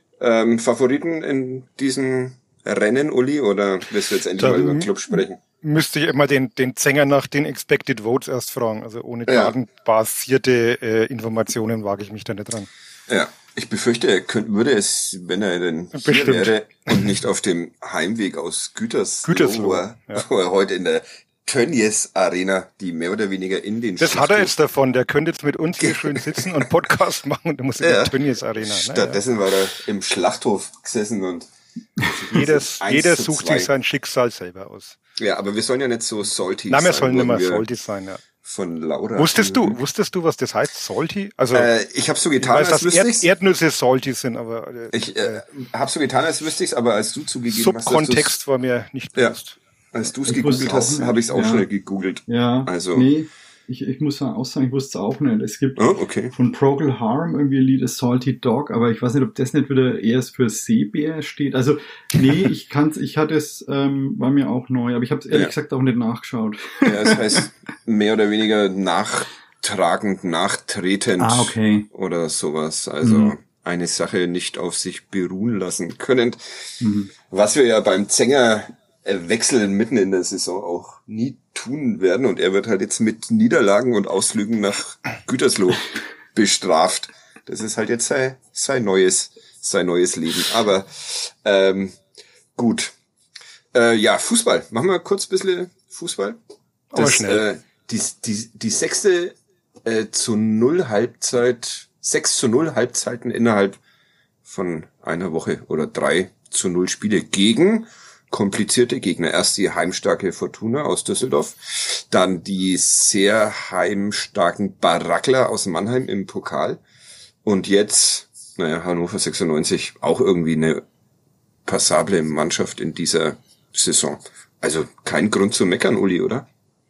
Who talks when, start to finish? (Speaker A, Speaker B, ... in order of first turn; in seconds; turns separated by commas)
Speaker A: 0.2-5.4, Speaker B: 4.4-12.7, Speaker A: 9.3-9.5, Speaker A: 13.1-24.5, Speaker B: 15.9-16.9, Speaker B: 19.2-20.2, Speaker B: 24.0-29.2, Speaker A: 25.8-26.6, Speaker A: 27.8-33.7, Speaker B: 32.3-35.0, Speaker A: 35.2-37.6, Speaker B: 36.7-38.2, Speaker A: 38.4-39.8, Speaker B: 39.2-41.7, Speaker A: 41.5-43.3, Speaker B: 42.4-45.4, Speaker A: 44.9-48.4, Speaker B: 47.5-49.6, Speaker A: 49.9-53.1, Speaker C: 50.2-51.7, Speaker C: 52.3-67.4, Speaker A: 55.8-56.3, Speaker A: 66.8-76.4, Speaker C: 71.2-71.9, Speaker C: 73.0-73.3, Speaker C: 76.8-77.1, Speaker A: 77.2-92.0, Speaker A: 92.5-92.9, Speaker A: 93.7-96.4, Speaker B: 96.9-97.4, Speaker A: 96.9-103.8, Speaker A: 104.4-116.8, Speaker A: 117.4-120.8, Speaker A: 121.7-126.5